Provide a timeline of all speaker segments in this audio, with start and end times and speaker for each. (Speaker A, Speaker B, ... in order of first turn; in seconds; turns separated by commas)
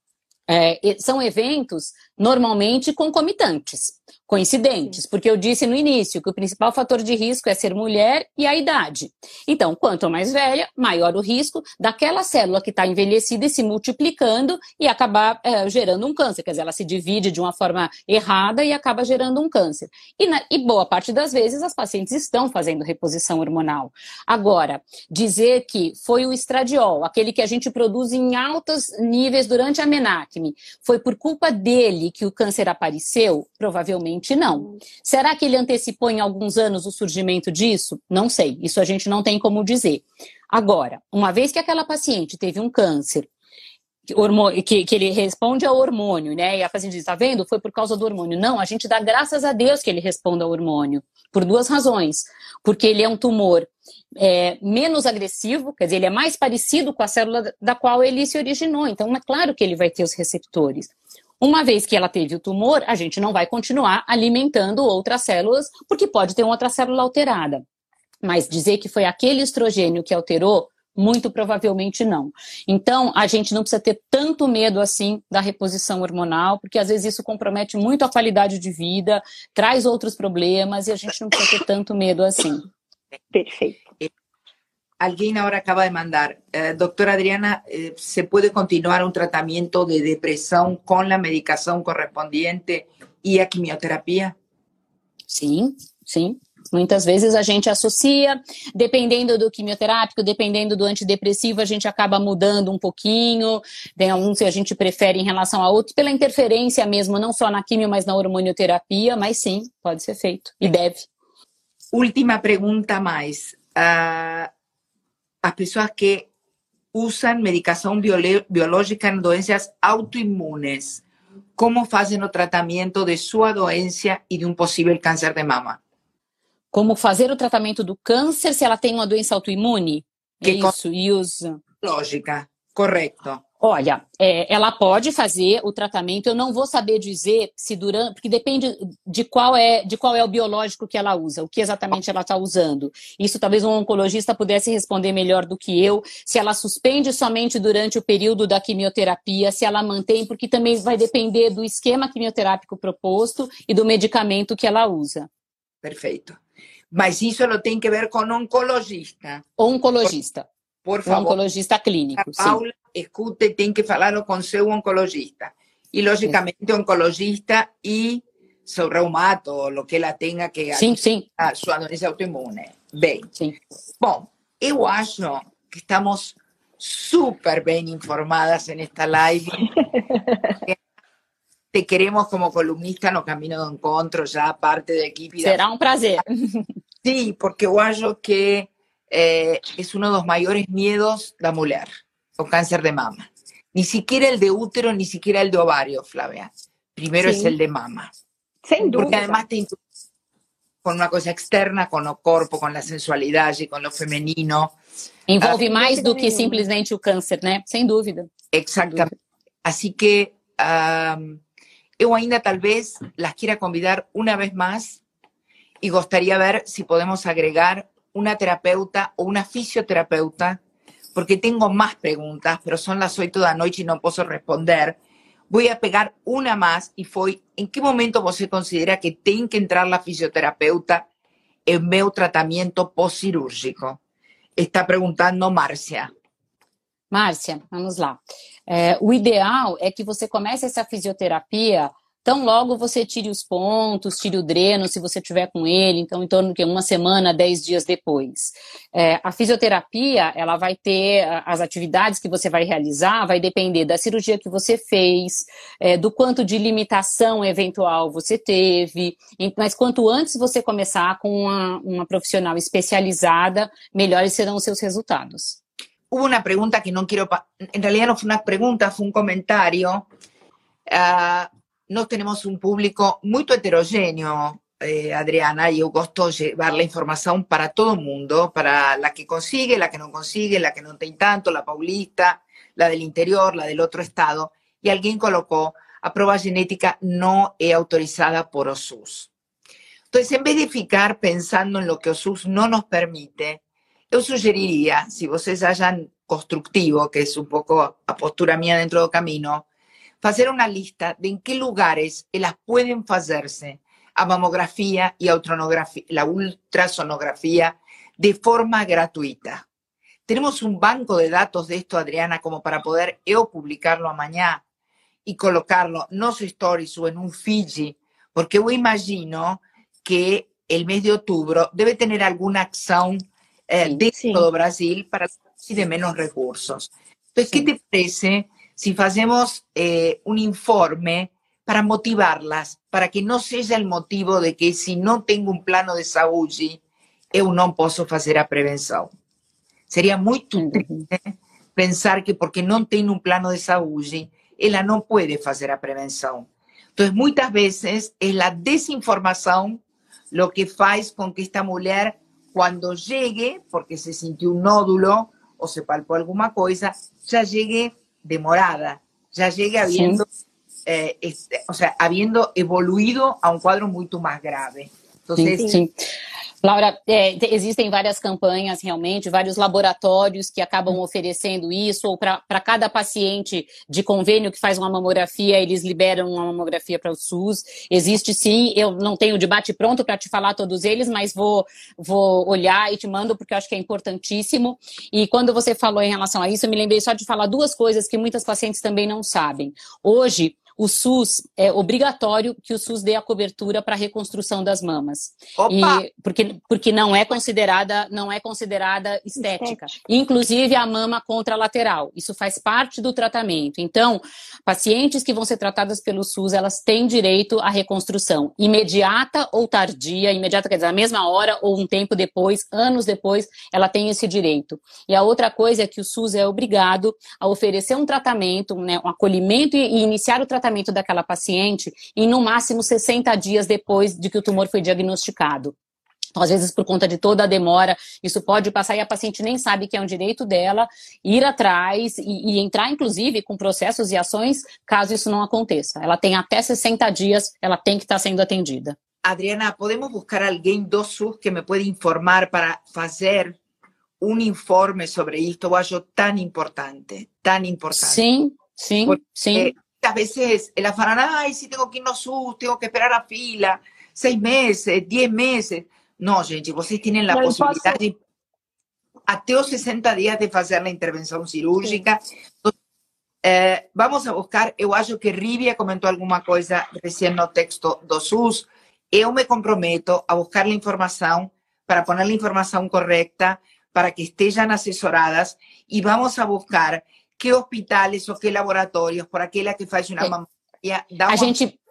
Speaker A: 0.5-43.3, Speaker A: 44.1-67.6, Speaker A: 68.2-82.7, Speaker B: 83.3-83.8, Speaker C: 85.0-94.3, Speaker A: 95.3-111.1, Speaker C: 111.9-114.5, Speaker C: 115.4-116.3, Speaker C: 116.9-121.0, Speaker C: 121.6-125.8, Speaker A: 126.7-131.6, Speaker C: 130.4-130.7, Speaker C: 131.8-133.4, Speaker A: 133.6-155.3, Speaker C: 155.8-156.4, Speaker C: 156.9-159.4, Speaker A: 159.6-160.5, Speaker C: 160.8-161.4, Speaker A: 161.1-162.6, Speaker C: 162.2-173.3, Speaker A: 170.7-171.3, Speaker C: 174.0-179.7, Speaker B: 179.9-180.5, Speaker C: 181.7-185.6, Speaker A: 185.4-186.7, Speaker C: 187.0-198.1, Speaker B: 197.2-197.5, Speaker B: 198.6-199.4, Speaker C: 198.8-199.8, Speaker C: 200.8-204.8, Speaker A: 205.3-208.3, Speaker B: 205.4-206.6, Speaker C: 208.5-209.1, Speaker C: 209.6-211.4, Speaker C: 212.0-215.0, Speaker C: 215.8-220.6, Speaker C: 221.1-225.0, Speaker C: 225.5-231.1, Speaker C: 231.7-234.0, Speaker C: 234.6-236.1, Speaker A: 237.1-265.6, Speaker C: 266.1-270.1, Speaker C: 270.9-289.3, Speaker C: 290.1-299.7, Speaker C: 300.2-309.6, Speaker C: 310.3-314.6, Speaker C: 315.2-336.8, Speaker B: 324.1-324.4, Speaker C: 337.3-339.1, Speaker C: 339.9-360.2, Speaker A: 340.6-341.1, Speaker A: 359.9-360.2, Speaker C: 360.8-365.6, Speaker A: 365.4-365.9, Speaker B: 365.6-365.8, Speaker A: 366.6-425.7, Speaker C: 395.6-396.0, Speaker B: 399.4-399.9, Speaker A: 426.3-438.9, Speaker C: 439.2-443.6, Speaker C: 444.2-448.2, Speaker A: 447.9-449.7, Speaker C: 449.1-458.2, Speaker B: 457.3-458.0, Speaker C: 459.3-462.7, Speaker C: 463.4-481.6, Speaker A: 481.3-481.7